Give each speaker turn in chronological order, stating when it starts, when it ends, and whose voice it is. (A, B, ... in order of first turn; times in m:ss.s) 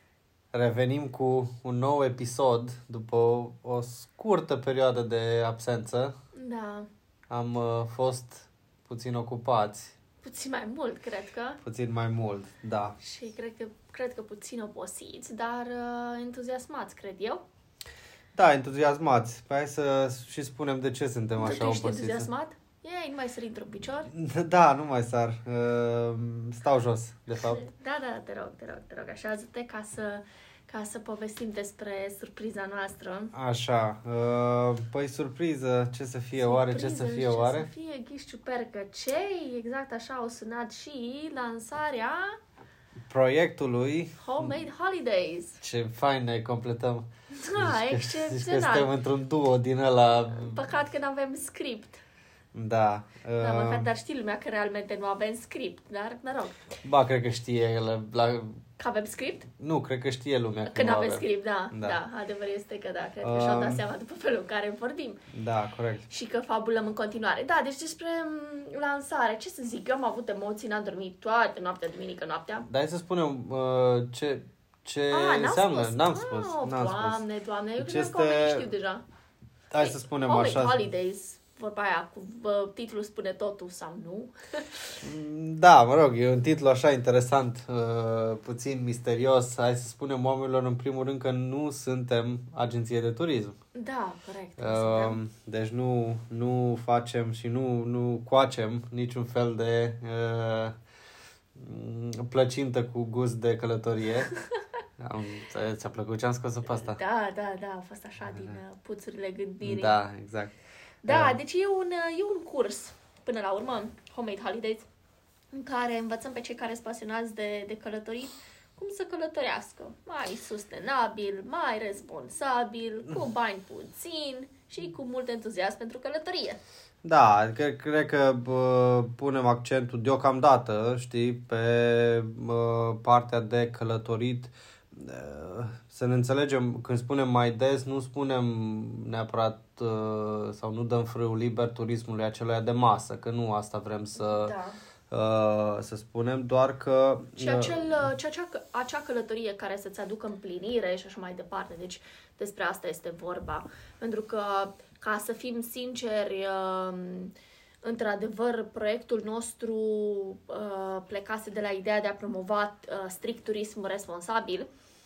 0:00.5-0:06.1 A
0:06.3-0:06.9 B
0:07.3-0:09.9 A
0:10.2-0:11.6 B
0:11.6-0:13.0 A
0:13.0-0:17.4 B
0:18.3-0:22.3 A
0:21.4-0:24.1 B
0:24.1-0:27.6 A
0:27.4-0:33.3 B
0:33.3-0:37.7 A
0:36.4-0:42.4 B
0:43.1-0:44.5 A
0:44.2-0:45.6 B
0:45.6-0:50.6 A
0:47.3-0:48.9 B
0:50.3-0:52.0 B
0:52.5-0:53.9 A
0:53.4-0:56.8 B
0:56.8-0:58.6 A
0:58.8-0:59.5 B
0:59.6-1:02.0 A
1:00.6-1:05.2 B
1:03.2-1:03.8 A
1:05.3-1:06.0 A
1:06.1-1:12.6 B
1:12.7-1:17.2 A
1:15.1-1:19.0 B
1:17.8-1:18.7 A
1:19.7-1:20.8 A
1:19.8-1:24.9 B
1:25.0-1:33.6 A
1:33.7-1:35.2 B
1:34.6-1:40.8 A
1:41.6-1:44.3 A
1:45.0-1:47.0 A
1:46.6-1:50.0 B
1:49.6-1:50.5 A
1:51.0-1:54.8 B
1:51.1-1:51.4 A
1:55.5-2:06.6 B
2:07.0-2:24.5 A
2:24.2-2:24.8 B
2:25.1-2:28.1 A
2:27.4-2:44.7 B